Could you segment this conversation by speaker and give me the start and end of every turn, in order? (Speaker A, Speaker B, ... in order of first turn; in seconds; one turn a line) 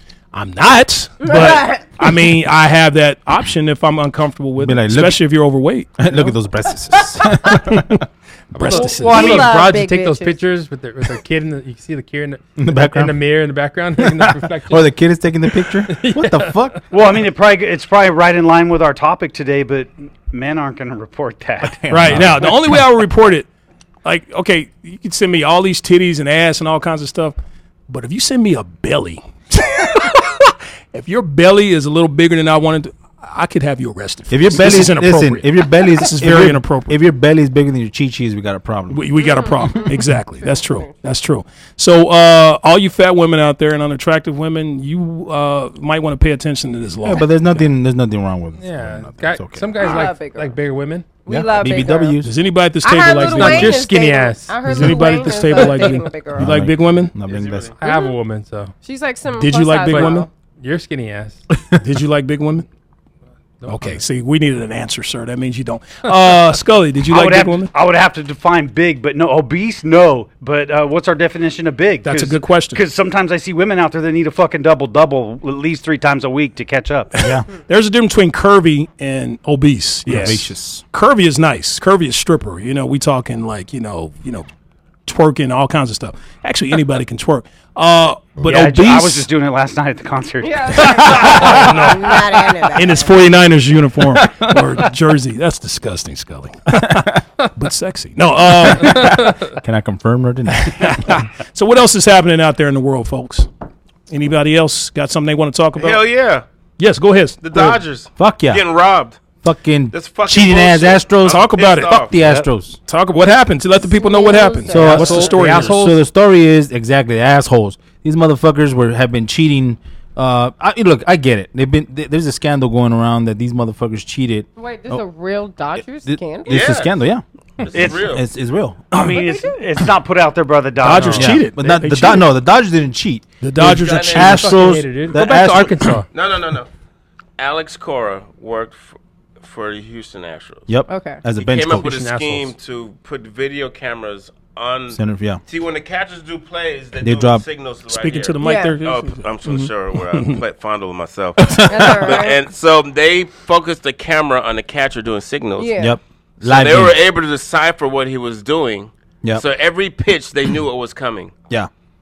Speaker A: 0.3-6.0
Speaker B: 1.2-1.9
Speaker C: 4.6-5.2
Speaker C: 6.0-8.0
Speaker A: 7.5-8.0
Speaker A: 8.5-9.5
Speaker D: 8.5-14.9
Speaker B: 8.7-10.4
Speaker C: 12.6-13.2
Speaker C: 14.0-16.8
Speaker D: 15.8-16.8
Speaker E: 16.9-22.3
Speaker C: 21.6-22.8
Speaker A: 21.9-23.5
Speaker A: 24.0-27.4
Speaker A: 27.9-37.0
Speaker C: 34.3-39.1
Speaker A: 38.9-47.6
Speaker B: 39.2-39.9
Speaker B: 40.4-40.9
Speaker C: 47.0-49.7
Speaker D: 48.6-51.1
Speaker B: 49.8-50.6
Speaker B: 51.2-52.2
Speaker C: 51.3-52.3
Speaker A: 52.2-53.9
Speaker B: 52.8-56.6
Speaker D: 53.1-56.0
Speaker A: 54.6-57.1
Speaker C: 56.4-57.7
Speaker F: 57.2-57.7
Speaker D: 57.8-58.7
Speaker B: 57.8-58.2
Speaker B: 58.8-60.3
Speaker A: 59.4-60.3
Speaker D: 59.9-61.4
Speaker C: 61.5-61.8
Speaker A: 61.8-62.7
Speaker D: 63.6-64.0
Speaker A: 63.6-67.7
Speaker E: 67.1-77.1
Speaker A: 72.0-72.8
Speaker A: 77.2-84.5
Speaker C: 77.2-77.5
Speaker C: 80.1-80.8
Speaker A: 85.0-89.3
Speaker E: 88.4-91.7
Speaker B: 90.4-93.1
Speaker A: 90.8-99.3
Speaker C: 94.3-94.6
Speaker C: 96.8-97.1
Speaker C: 98.7-101.0
Speaker A: 100.6-103.5
Speaker A: 104.1-106.0
Speaker F: 105.8-106.4
Speaker A: 106.8-107.8
Speaker F: 107.4-109.2
Speaker C: 108.2-108.6
Speaker C: 109.4-112.8
Speaker F: 109.9-112.2
Speaker A: 111.2-112.0
Speaker A: 112.9-115.9
Speaker B: 113.8-115.3
Speaker C: 114.7-125.0
Speaker D: 114.7-116.0
Speaker B: 124.5-126.7
Speaker C: 126.0-127.2
Speaker F: 126.5-126.9
Speaker F: 127.6-128.2
Speaker E: 127.7-128.1
Speaker C: 127.8-129.0
Speaker E: 128.9-131.5
Speaker B: 129.1-129.6
Speaker A: 130.8-132.3
Speaker C: 131.1-135.9
Speaker A: 133.4-134.7
Speaker F: 133.6-134.6
Speaker D: 134.2-136.1
Speaker F: 136.1-136.7
Speaker F: 137.4-140.7
Speaker C: 140.7-141.9
Speaker B: 140.9-141.2
Speaker F: 141.4-155.7
Speaker D: 141.7-142.5
Speaker C: 144.9-145.4
Speaker C: 147.0-147.4
Speaker A: 147.9-150.4
Speaker B: 148.4-148.8
Speaker B: 151.7-152.4
Speaker B: 155.6-155.9
Speaker C: 155.8-156.9
Speaker F: 156.4-161.3